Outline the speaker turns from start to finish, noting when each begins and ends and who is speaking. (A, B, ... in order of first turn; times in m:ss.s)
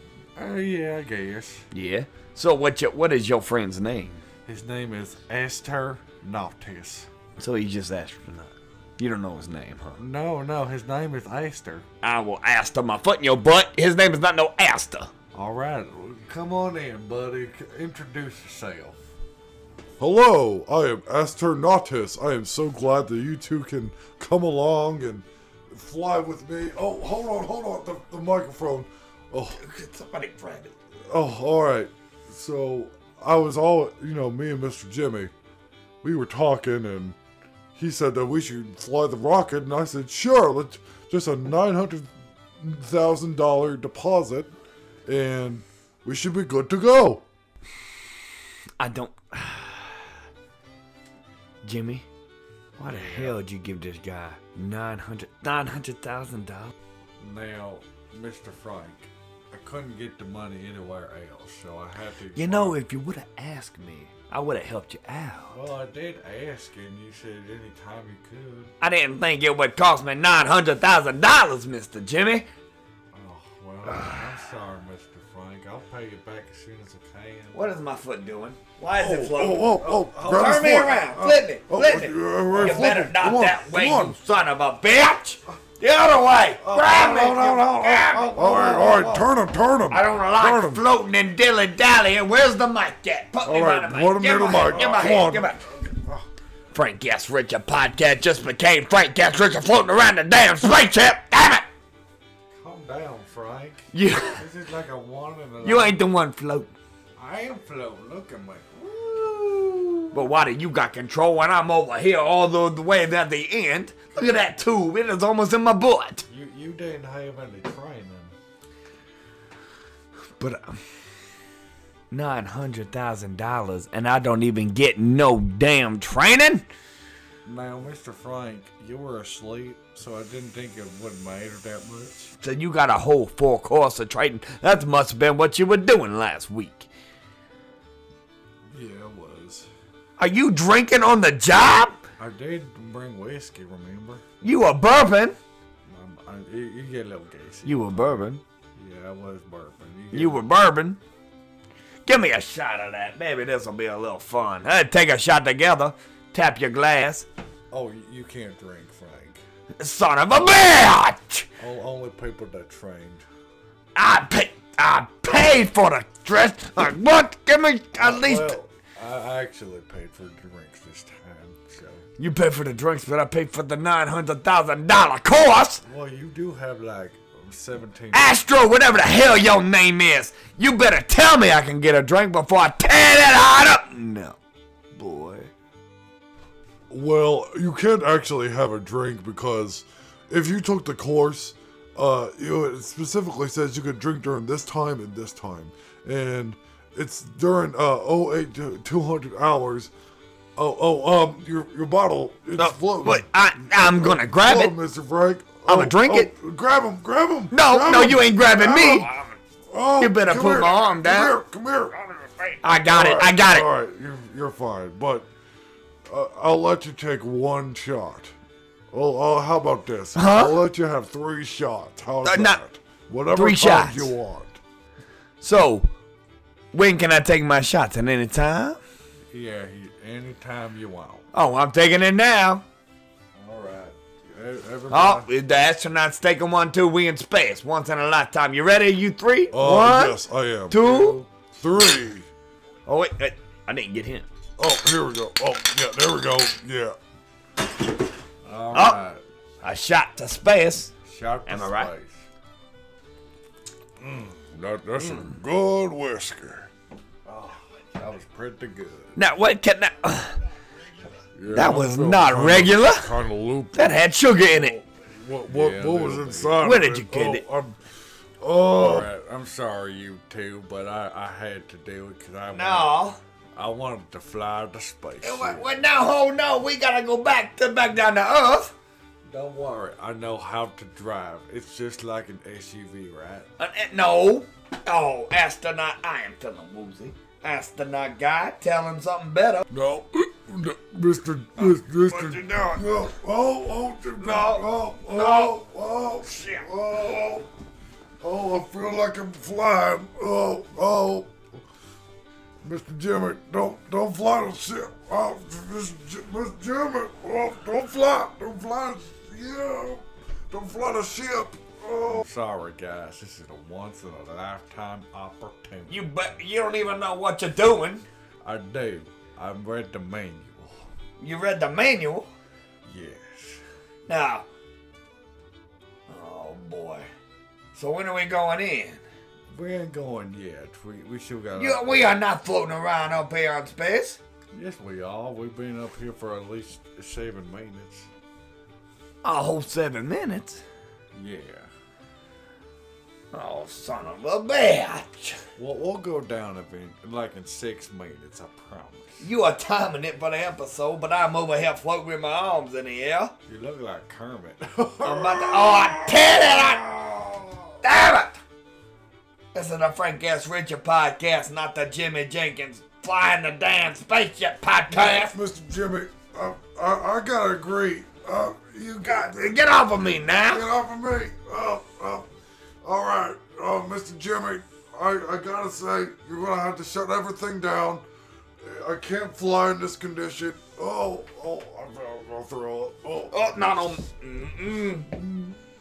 0:00.4-0:01.6 A
0:01.7-0:04.2 B
0:04.4-0:07.1 A
0:07.4-0:10.0 B
0:10.0-0:11.9 A
0:12.0-0:15.1 B
0:15.3-0:19.0 A
0:20.0-0:29.6 C
0:29.6-0:30.7 B
0:31.1-0:35.3 C
0:36.0-0:37.2 C
0:37.8-0:44.5 C
0:45.0-0:47.2 C
0:48.8-0:50.1 B
0:51.6-0:52.0 B
0:52.8-0:56.7 B
0:52.9-0:53.4 A
0:57.2-1:02.8 A
1:02.4-1:05.5 B
1:05.5-1:08.7 A
1:08.8-1:12.5 B
1:13.1-1:17.8 A
1:17.5-1:29.2 B
1:19.0-1:24.2 C
1:19.8-1:20.6 A
1:22.5-1:22.8 A
1:26.6-1:30.8 C
1:26.7-1:28.7 A
1:29.9-1:35.6 B
1:33.4-1:35.6 C
1:34.7-1:35.2 A
1:36.7-1:41.6 B
1:42.5-1:46.0 A
1:43.9-1:44.4 B
1:45.6-1:46.7 B
1:47.2-1:50.1 A
1:50.1-1:56.2 B
1:56.3-1:58.3 A
2:00.4-2:00.8 B
2:02.1-2:06.6 B
2:07.4-2:12.3 A
2:12.4-2:16.9 B
2:18.7-2:19.7 A
2:20.2-2:22.0 B
2:22.2-2:24.2 A
2:24.4-2:25.4 B
2:25.9-2:28.2 A
2:27.6-2:28.4 B
2:28.8-2:30.4 A
2:30.1-2:31.0 B
2:32.0-2:37.3 B
2:37.7-2:39.4 A
2:39.8-2:41.4 B
2:41.6-2:43.2 A
2:43.9-2:48.5 B
2:48.0-2:52.0 A
2:52.2-2:55.8 B
2:55.8-2:58.4 A
2:58.1-3:04.4 B
3:04.9-3:05.5 B
3:06.9-3:19.9 C
3:20.6-3:35.3 C
3:22.6-3:24.7 B
3:25.6-3:26.3 B
3:27.5-3:29.1 B
3:30.0-3:31.4 B
3:32.6-3:33.7 B
3:36.1-3:38.3 C
3:38.9-3:44.6 C
3:40.1-3:40.6 B
3:42.2-3:42.6 B
3:43.3-3:44.1 B
3:45.4-3:45.9 B
3:46.7-3:48.8 B
3:49.3-3:51.3 A
3:51.3-3:52.6 B
3:53.3-3:55.3 A
3:54.9-4:00.2 B
3:59.5-4:02.3 C
4:00.7-4:01.2 B
4:02.8-4:04.2 B
4:04.6-4:07.0 C
4:08.4-4:09.2 A
4:08.7-4:09.0 B
4:09.6-4:10.9 B
4:11.0-4:12.2 A
4:11.5-4:11.9 B
4:14.0-4:16.7 C
4:17.2-4:19.2 A
4:19.2-4:20.4 B
4:21.3-4:27.8 C
4:21.5-4:23.1 B
4:23.7-4:24.8 B
4:25.5-4:26.6 A
4:26.6-4:27.4 B
4:28.4-4:29.1 C
4:28.7-4:32.9 A
4:32.5-4:33.2 B
4:33.5-4:35.6 A
4:35.2-4:38.7 B
4:39.3-4:43.5 A
4:43.6-4:49.6 B
4:49.7-4:57.5 C
4:51.6-4:52.8 B
4:54.2-4:55.6 B
4:56.2-4:56.7 B
4:58.2-5:01.4 C
5:02.6-5:12.2 C
5:12.1-5:16.0 A
5:15.9-5:18.0 B
5:18.4-5:20.9 A
5:21.2-5:22.3 B
5:22.8-5:23.6 A
5:24.1-5:24.4 B
5:26.1-5:27.1 B
5:27.7-5:29.0 B
5:29.5-5:32.0 A
5:31.6-5:34.2 B
5:34.5-5:38.1 A
5:39.2-5:40.6 B
5:41.1-5:41.7 A
5:43.3-5:45.4 B
5:45.6-5:49.3 A
5:49.2-5:53.3 B
5:53.5-5:55.9 A
5:55.0-5:56.8 B
5:56.2-5:56.5 C
5:57.0-5:57.6 C
5:57.8-5:58.4 B
5:59.5-6:05.3 B
6:04.9-6:09.6 C
6:09.1-6:10.7 B
6:10.5-6:12.3 C
6:12.8-6:18.0 C
6:18.6-6:23.3 C
6:23.3-6:25.2 B